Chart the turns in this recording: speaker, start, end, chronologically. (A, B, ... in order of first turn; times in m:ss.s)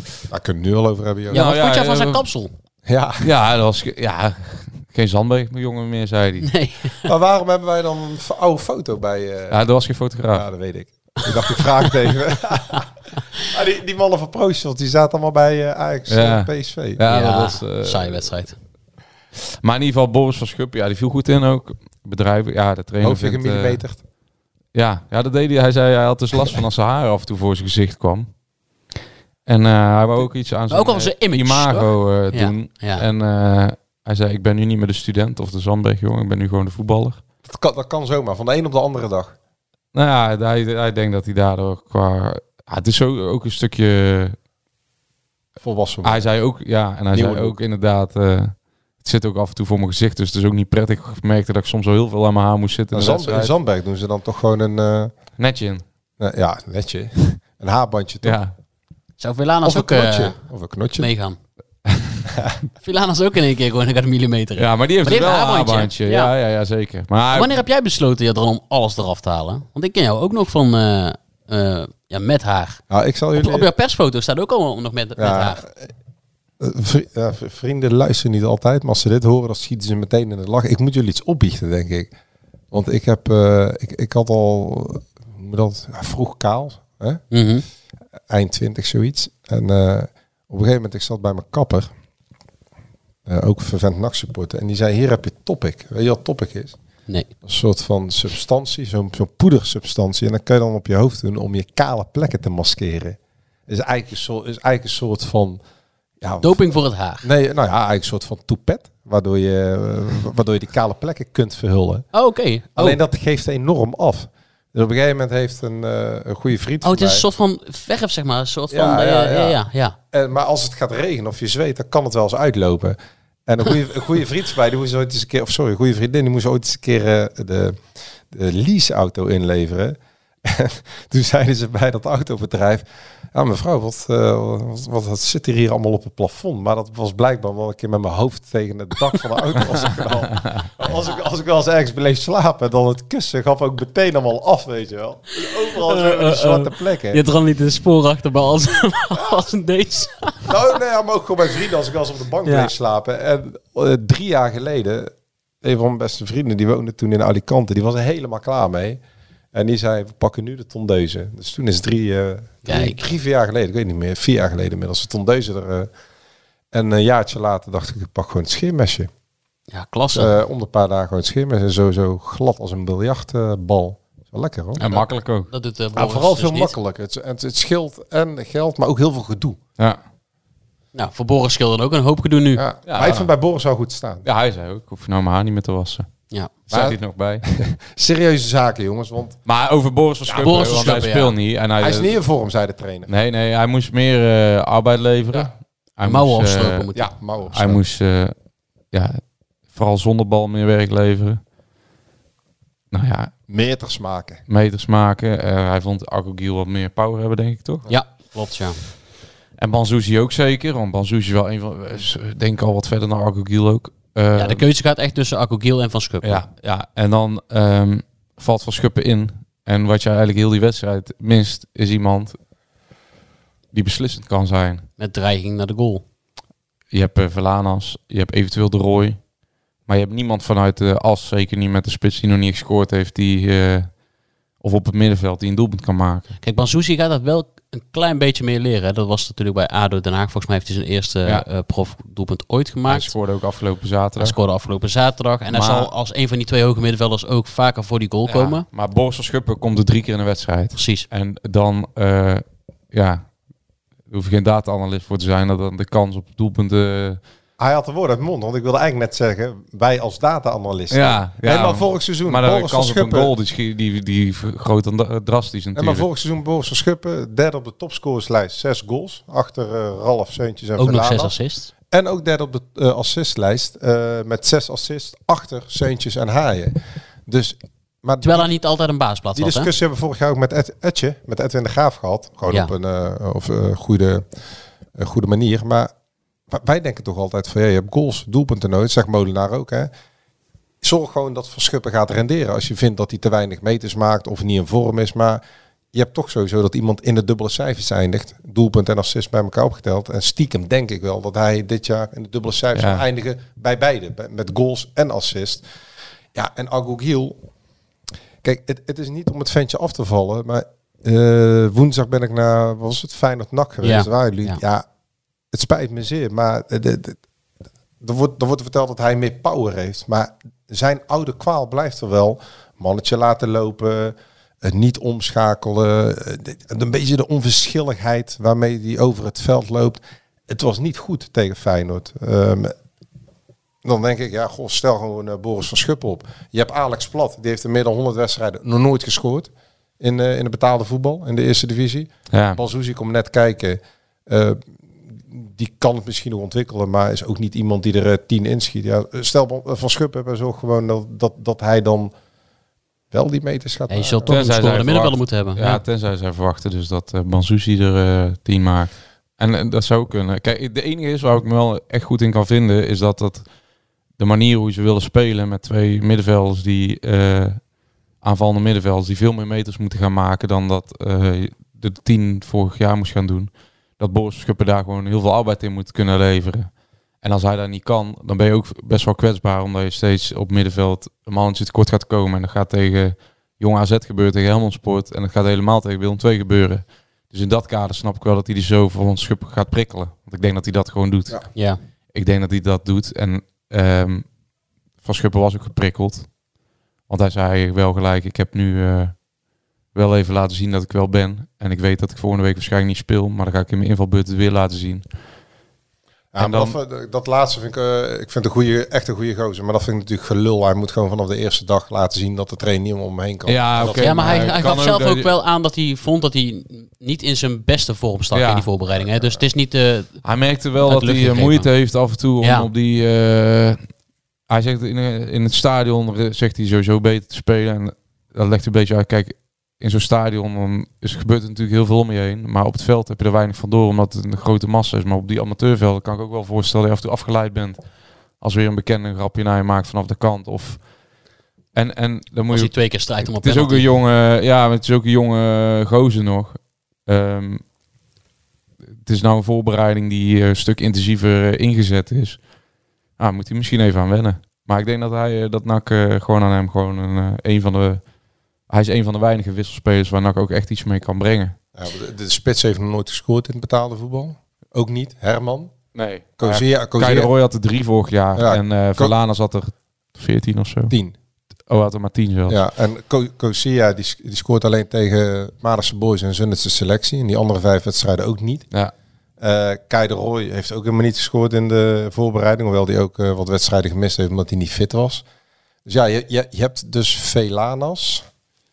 0:00.3-0:01.5 A
0:01.3-0:02.5 B
0:01.3-0:02.2 C
0:02.9-0:03.3 A
0:03.2-0:06.5 C
0:06.4-0:07.1 B
0:07.0-0:09.6 A
0:09.5-0:10.5 C
0:10.3-0:12.9 A
0:13.4-0:17.0 A
0:16.1-0:18.3 C
0:17.1-0:18.6 B
0:19.6-0:23.8 C
0:23.0-0:24.0 A
0:24.7-0:28.3 C
0:29.5-0:37.2 C
0:30.7-0:33.0 B
0:37.5-0:39.4 A
0:39.9-0:44.4 C
0:45.6-0:46.3 A
0:46.0-0:53.5 C
0:47.1-0:47.6 A
0:52.9-0:55.2 A
0:55.4-0:55.8 C
0:56.2-0:58.4 A
0:58.2-0:58.5 C
0:59.2-1:00.4 B
0:59.6-1:01.1 A
1:01.0-1:01.4 B
1:01.9-1:02.2 C
1:02.8-1:06.3 B
1:04.6-1:07.6 C
1:07.3-1:12.8 B
1:12.9-1:13.7 A
1:13.4-1:15.6 B
1:15.2-1:15.9 A
1:16.6-1:22.1 A
1:22.7-1:27.2 A
1:27.3-1:27.6 B
1:28.3-1:31.9 A
1:33.3-1:36.8 A
1:37.4-1:45.6 A
1:46.2-1:52.1 A
1:46.4-1:47.3 B
1:52.1-1:53.0 B
1:52.8-1:57.2 A
1:56.8-2:00.0 B
1:58.7-1:59.6 A
2:00.1-2:07.8 A
2:08.3-2:27.2 A
2:25.8-2:30.5 B
2:30.5-2:39.0 A
2:32.4-2:32.7 B
2:39.5-2:45.9 A
2:42.7-2:43.0 B
2:46.7-2:49.1 A
2:49.7-2:50.3 B
2:50.1-2:54.8 A
2:54.8-2:56.8 B
2:54.8-2:55.5 C
2:56.0-2:59.6 A
3:01.0-3:02.6 B
3:02.6-3:04.2 A
3:02.9-3:03.3 C
3:04.2-3:06.1 C
3:06.7-3:07.5 C
3:06.7-3:09.4 A
3:09.5-3:12.2 C
3:10.3-3:10.8 A
3:10.3-3:11.3 B
3:11.8-3:13.1 A
3:13.1-3:18.3 C
3:16.0-3:17.1 B
3:17.0-3:17.8 A
3:18.9-3:21.4 C
3:22.9-3:23.3 C
3:23.5-3:24.4 A
3:24.5-3:27.9 C
3:27.9-3:28.8 B
3:29.6-3:34.6 C
3:34.4-3:36.4 B
3:36.2-3:42.4 C
3:43.7-3:44.9 C
3:45.0-3:46.0 B
3:46.9-3:49.2 C
3:49.9-3:53.9 C
3:54.6-3:56.3 C
3:56.4-4:03.1 B
4:02.9-4:04.4 C
4:04.2-4:08.6 B
4:05.5-4:05.9 C
4:08.3-4:13.3 C
4:10.8-4:11.1 B
4:14.1-4:17.2 C
4:17.6-4:23.3 A
4:20.9-4:26.1 C
4:25.8-4:31.3 A
4:30.8-4:31.7 B
4:31.9-4:38.5 A
4:38.2-4:39.7 B
4:39.3-4:44.3 A
4:45.0-4:45.9 A
4:46.5-4:49.9 A
4:50.8-4:55.4 A
4:55.9-5:05.6 A
5:02.8-5:03.0 C
5:06.4-5:07.4 A
5:08.4-5:14.8 A
5:13.8-5:14.6 B
5:15.5-5:17.2 A
5:18.0-5:32.8 A
5:33.8-5:52.1 A
5:42.3-5:42.6 C
5:53.1-5:54.4 A
5:53.9-5:55.8 B
5:54.3-6:03.5 C
6:04.2-6:07.7 C
6:08.2-6:34.3 C
6:31.6-6:31.8 B
6:35.0-6:36.3 C
6:37.1-6:39.2 C
6:39.9-6:45.1 C
6:46.3-6:54.7 A
6:46.4-6:46.8 C
6:53.5-6:55.3 C
6:53.9-7:00.2 B
6:58.3-6:58.7 C
7:00.2-7:03.8 C
7:00.8-7:01.7 B
7:02.4-7:02.7 B
7:04.5-7:17.8 C
7:18.4-7:20.9 C
7:21.8-7:27.6 C
7:22.5-7:23.9 B
7:29.0-7:32.4 C
7:33.2-7:38.0 C
7:38.7-7:41.6 C
7:41.8-7:45.8 A
7:46.0-7:50.9 C
7:46.4-7:47.3 A
7:48.4-7:49.1 A
7:50.9-7:51.2 A
7:51.7-7:52.6 C
7:52.5-7:58.7 A
7:59.4-8:05.2 A
8:05.9-8:08.3 A